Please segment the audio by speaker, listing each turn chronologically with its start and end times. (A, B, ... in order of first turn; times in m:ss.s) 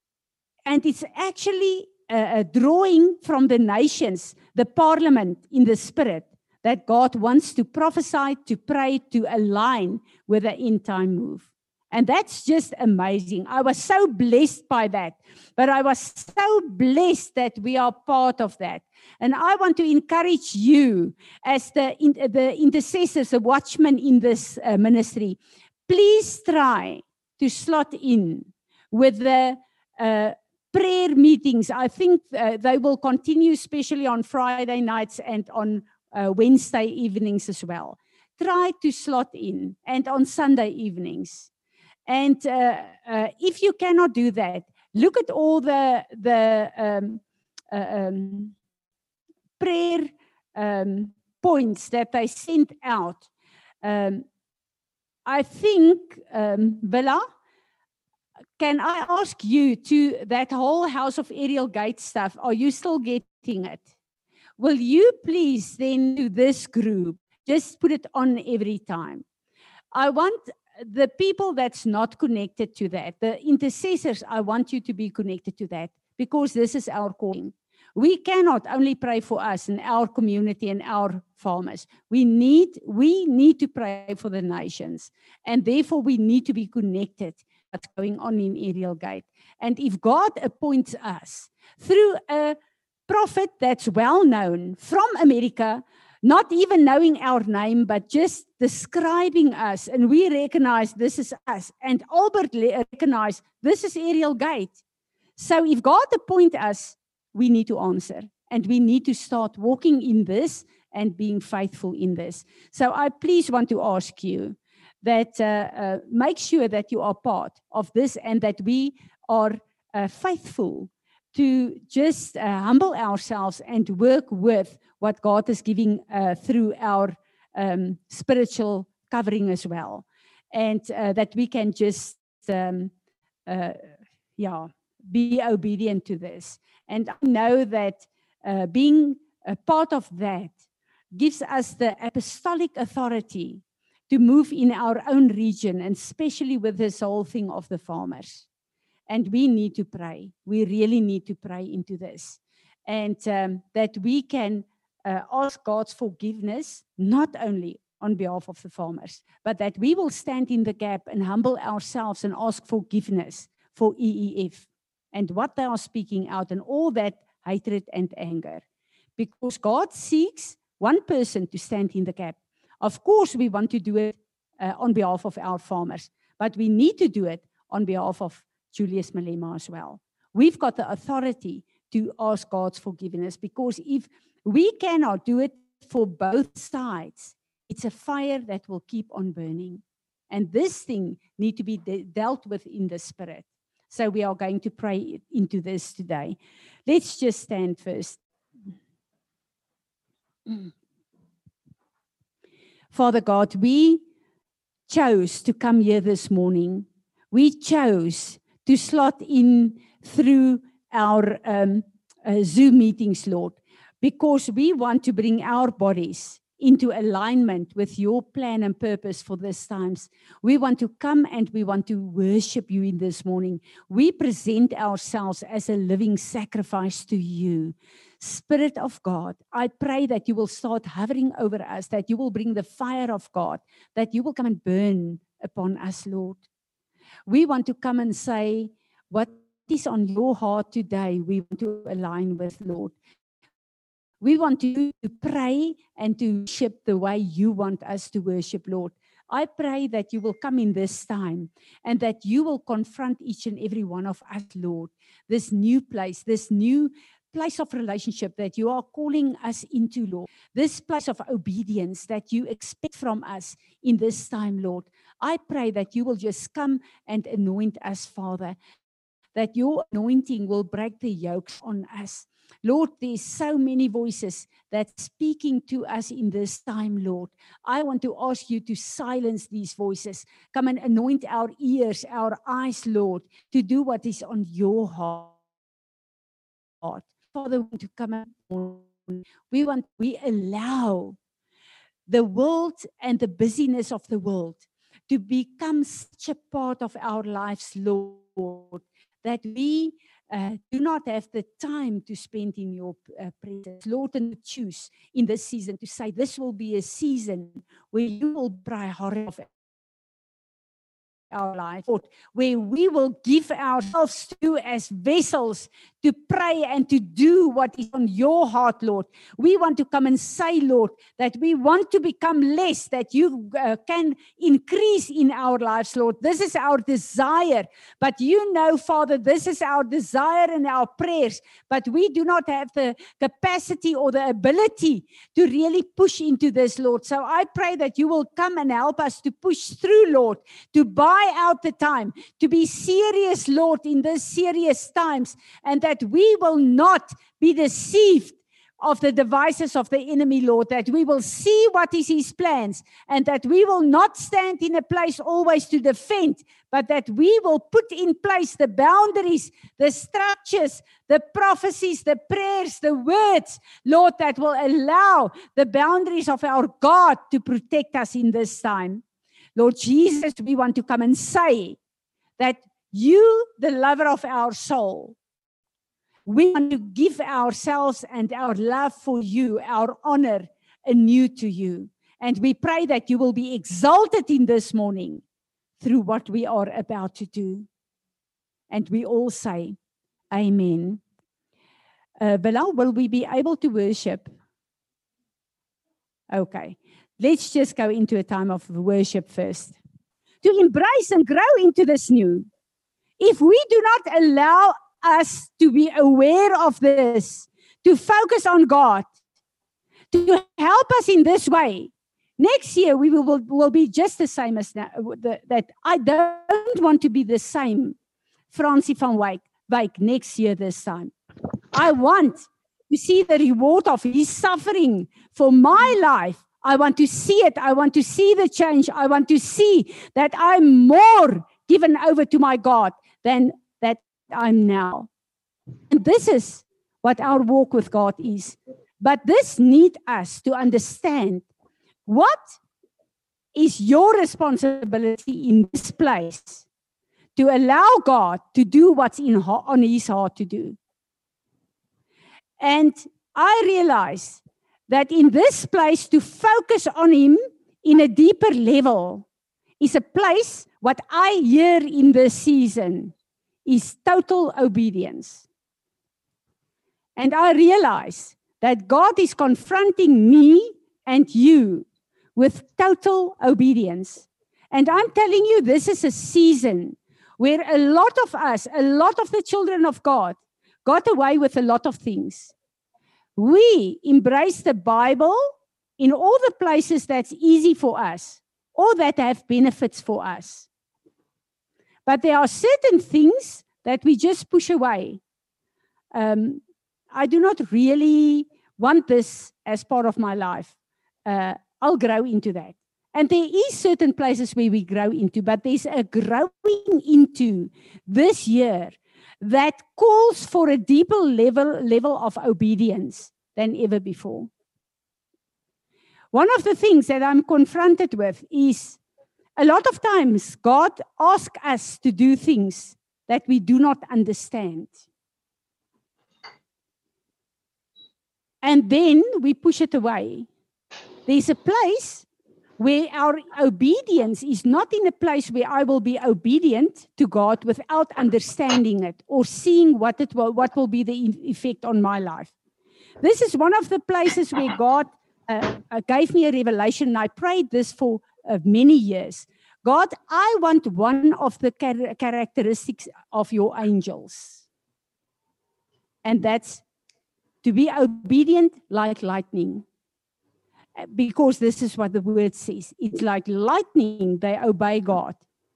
0:00.6-0:41.5 A
0:42.1-0:48.5 A
0:49.6-0:53.2 A
0:53.8-0:54.3 A
0:55.2-0:57.2 A
0:58.6-1:03.9 A
1:04.6-1:09.2 A
1:09.9-1:32.6 A
1:33.1-1:44.8 A
1:45.4-2:12.9 A
2:13.5-2:20.6 A
2:21.1-2:28.4 A
2:29.1-2:48.6 A
2:49.2-3:18.2 A
3:22.9-3:24.0 A
3:24.9-3:56.4 A
3:57.3-4:02.9 A
4:04.2-4:28.6 A
4:29.3-4:45.3 A
4:46.8-4:51.2 A
4:52.1-5:09.5 A
5:11.3-6:09.0 A
6:09.6-6:11.8 A
6:12.4-6:15.2 A
6:16.2-6:25.2 A
6:25.8-6:27.7 A
6:28.7-6:29.8 A
6:30.3-6:31.0 A
6:32.2-6:34.3 A
6:36.3-6:39.8 A
6:40.4-6:42.5 A
6:43.2-6:49.1 A
6:50.1-6:58.0 A
6:58.5-7:01.1 A
7:01.7-7:15.1 A
7:15.9-7:21.5 A
7:22.0-7:22.6 A
7:23.5-7:26.6 A
7:27.4-7:30.8 A
7:32.6-7:39.2 A
7:39.8-7:43.1 A
7:43.6-7:45.4 A
7:47.2-8:02.5 A
8:03.4-8:10.7 A
8:12.0-8:15.2 A
8:16.1-8:16.6 A
8:17.1-8:20.7 A
8:21.2-8:34.5 A
8:36.3-8:39.0 A
8:39.6-8:44.9 A
8:48.6-8:50.5 A
8:51.2-8:52.2 A
8:52.8-9:02.5 A
9:03.2-9:14.6 A
9:16.2-9:16.8 A
9:17.6-9:19.8 A
9:21.0-9:25.4 A